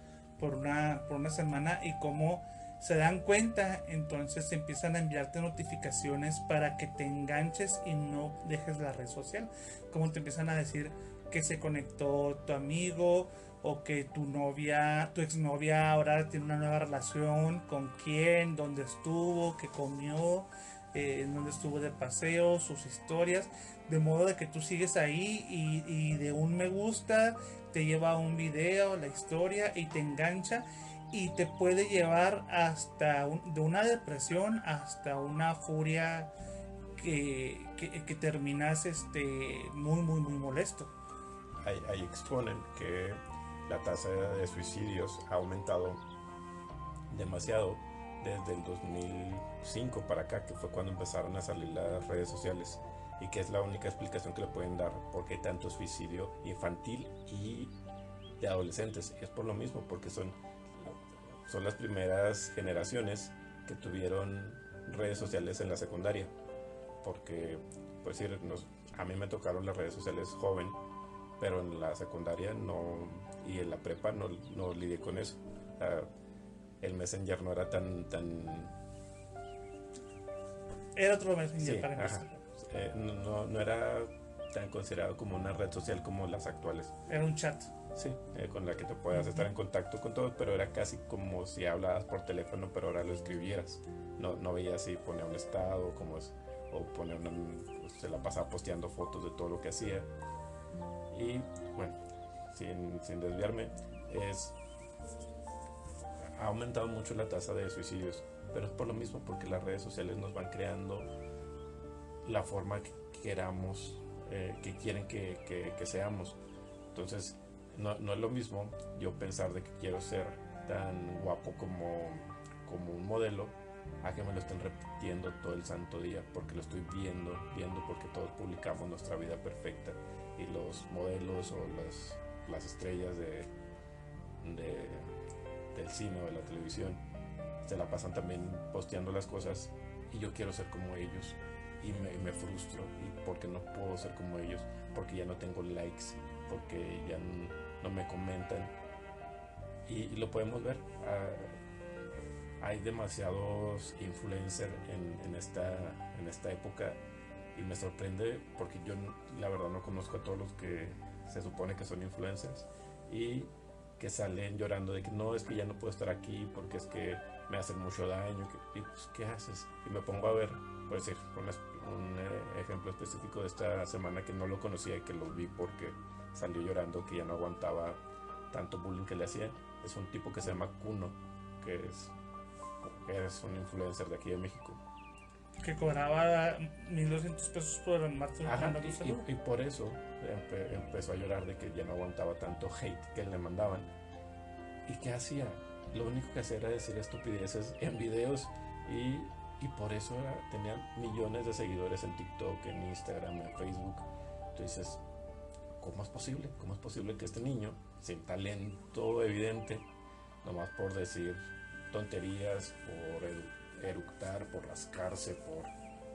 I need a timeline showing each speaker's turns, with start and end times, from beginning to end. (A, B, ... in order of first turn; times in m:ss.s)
0:00.4-0:36.3 A
0:37.0-0:40.9 A
0:41.6-0:46.0 B
0:47.1-0:57.8 B
0:58.4-1:06.3 B
1:07.0-1:10.8 B
1:11.4-1:16.1 B
1:16.8-1:18.8 B
1:21.0-1:22.4 A
1:21.6-1:27.0 B
1:27.1-1:27.7 A
1:27.9-1:40.1 B
1:29.1-1:29.5 A
1:41.1-1:44.6 B
1:46.4-1:51.1 B
1:52.2-1:56.4 B
1:56.9-2:13.5 B
2:14.4-2:15.2 B
2:15.7-2:17.0 B
2:17.6-2:28.7 B
2:29.9-2:31.6 B
2:32.6-2:37.0 B
2:37.6-3:02.2 B
3:02.8-3:04.8 B
3:05.6-3:09.3 A
3:08.4-3:13.9 B
3:14.9-3:25.0 B
3:25.8-3:29.9 B
3:30.4-3:31.4 B
3:31.9-3:35.7 B